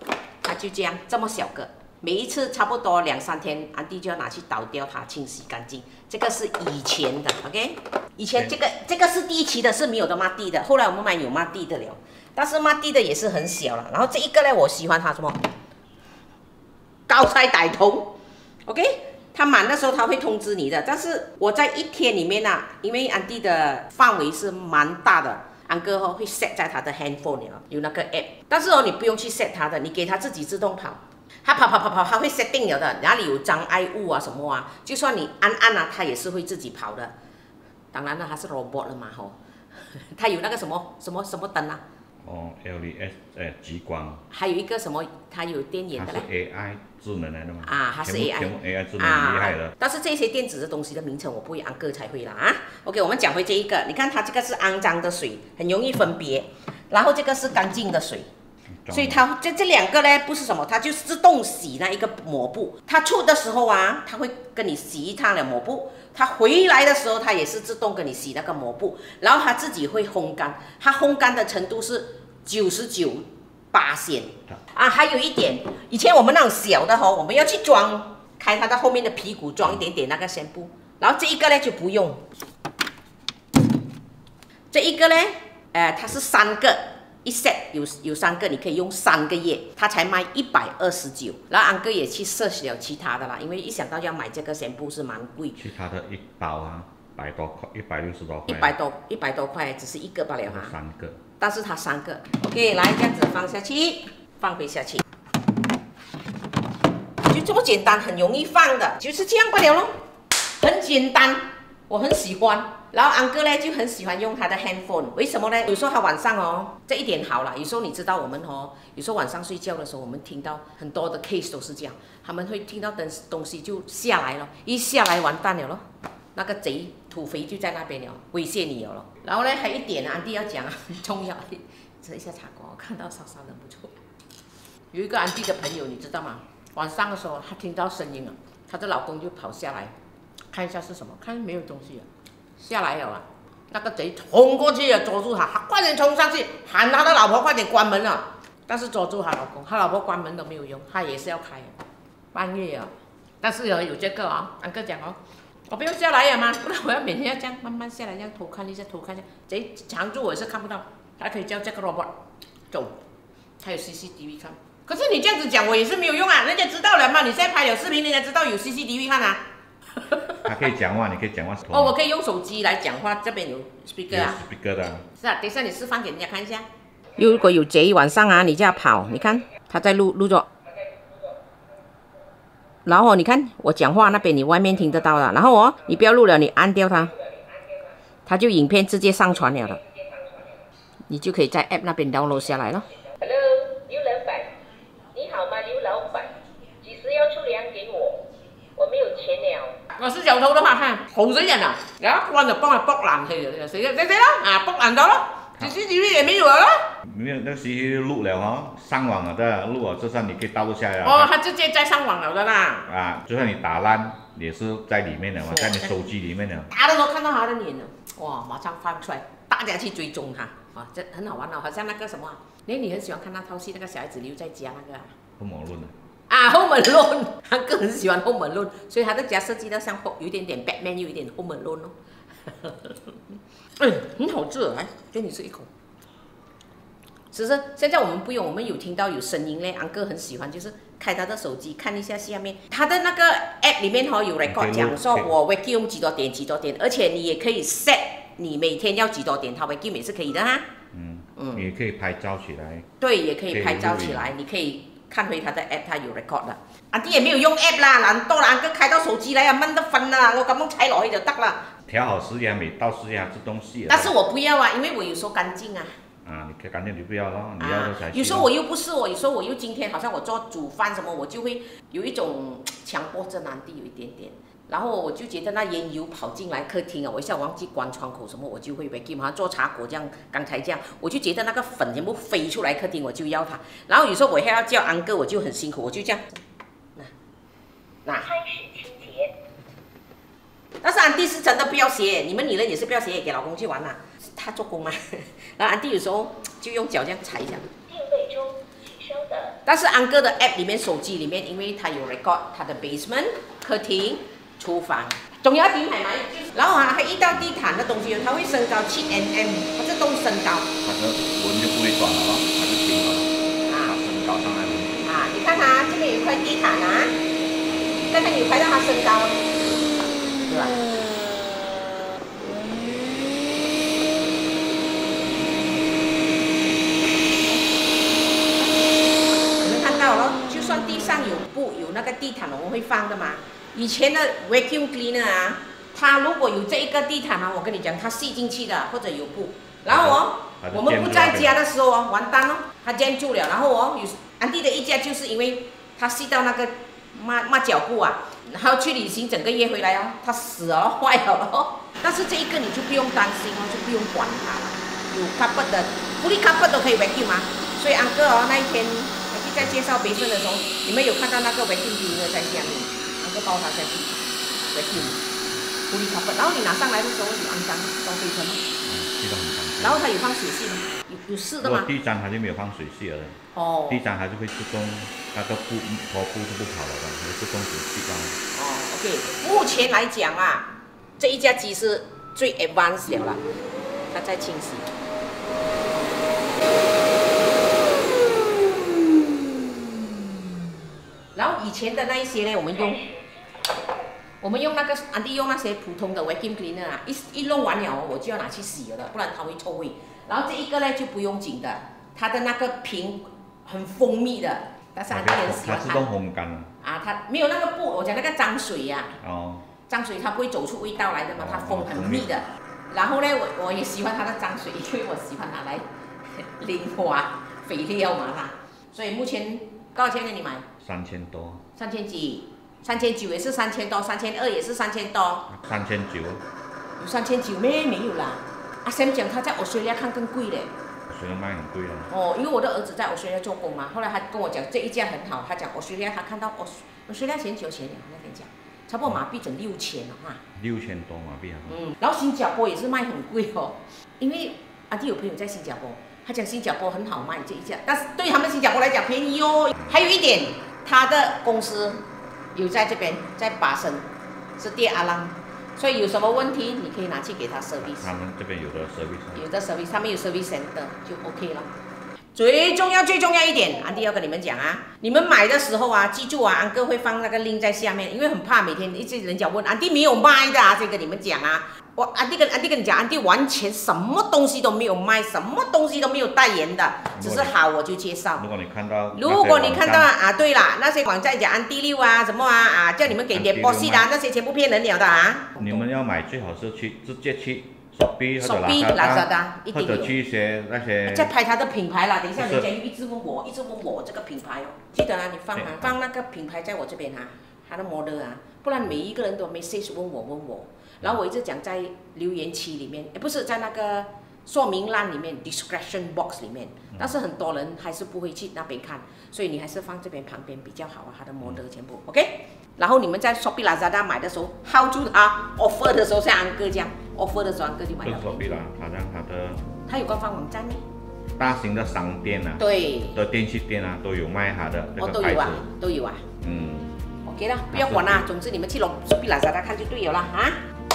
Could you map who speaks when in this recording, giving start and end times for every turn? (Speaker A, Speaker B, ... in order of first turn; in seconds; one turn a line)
Speaker A: 0.4-15.4
Speaker A: 17.1-18.1
Speaker A: 18.7-37.1
Speaker A: 37.9-39.4
Speaker A: 39.9-41.8
Speaker B: 42.2-44.2
Speaker A: 44.3-46.2
Speaker B: 46.0-49.7
Speaker A: 47.6-58.3
Speaker B: 58.8-59.2
Speaker A: 58.9-82.2
Speaker A: 84.7-95.6
Speaker B: 95.5-98.7
Speaker A: 98.5-100.7
Speaker B: 100.5-101.2
Speaker A: 101.4-105.0
Speaker A: 107.2-110.0
Speaker A: 110.6-134.0
Speaker A: 134.9-139.9
Speaker A: 140.5-151.8
Speaker A: 152.3-162.2
Speaker A: 162.7-163.0
Speaker A: 163.6-169.4
Speaker A: 170.0-170.4
Speaker B: 170.4-172.0
Speaker A: 171.7-174.4
Speaker B: 174.1-175.1
Speaker A: 175.2-180.5
Speaker A: 182.8-187.2
Speaker A: 188.2-189.8
Speaker A: 191.1-194.5
Speaker A: 195.1-206.9
Speaker B: 207.0-211.3
Speaker A: 211.0-212.9
Speaker B: 212.8-216.7
Speaker A: 215.4-216.0
Speaker A: 216.7-225.1
Speaker B: 225.4-225.9
Speaker A: 226.3-231.9
Speaker A: 232.5-233.2
Speaker A: 233.8-235.7
Speaker A: 237.3-250.7
Speaker B: 244.4-245.3
Speaker B: 250.9-252.9
Speaker A: 251.3-251.6
Speaker A: 253.0-261.7
Speaker B: 253.5-254.3
Speaker B: 261.9-264.1
Speaker A: 263.9-265.9
Speaker B: 266.2-268.5
Speaker A: 267.6-286.4
Speaker C: 288.2-289.4
Speaker A: 290.8-297.7
Speaker C: 297.9-299.6
Speaker A: 299.6-310.7
Speaker B: 310.8-315.1
Speaker A: 313.7-314.0
Speaker A: 315.0-317.2
Speaker B: 317.6-318.0
Speaker A: 318.0-319.6
Speaker A: 320.5-320.8
Speaker A: 329.5-365.2
Speaker B: 339.9-341.6
Speaker A: 365.9-368.6
Speaker B: 368.8-370.1
Speaker A: 369.8-371.9
Speaker B: 371.6-373.4
Speaker A: 373.5-374.0
Speaker B: 373.9-378.4
Speaker A: 378.5-383.4
Speaker A: 384.1-384.9
Speaker A: 391.3-393.0
Speaker C: 392.7-394.1
Speaker A: 394.4-406.0
Speaker B: 405.1-406.7
Speaker A: 406.8-409.2
Speaker B: 409.2-409.7
Speaker A: 409.9-415.9
Speaker B: 411.4-412.3
Speaker A: 416.4-420.7
Speaker B: 420.8-421.6
Speaker A: 421.8-425.5
Speaker B: 425.5-426.4
Speaker A: 427.0-430.7
Speaker B: 431.1-432.1
Speaker A: 432.1-440.4
Speaker B: 440.6-441.8
Speaker A: 441.7-452.0
Speaker B: 449.7-450.1
Speaker A: 452.5-458.1
Speaker B: 457.8-459.4
Speaker A: 459.3-461.7
Speaker A: 462.3-478.4
Speaker B: 477.1-477.6
Speaker B: 478.4-480.1
Speaker A: 479.1-485.8
Speaker B: 483.2-484.1
Speaker B: 485.6-491.3
Speaker A: 488.4-490.1
Speaker A: 491.1-518.4
Speaker B: 492.4-492.7
Speaker B: 495.5-495.9
Speaker B: 518.0-519.6
Speaker A: 519.9-520.8
Speaker B: 521.4-525.6
Speaker A: 522.6-523.2
Speaker A: 525.0-526.2
Speaker B: 526.4-527.0
Speaker A: 527.2-530.6
Speaker B: 527.7-528.2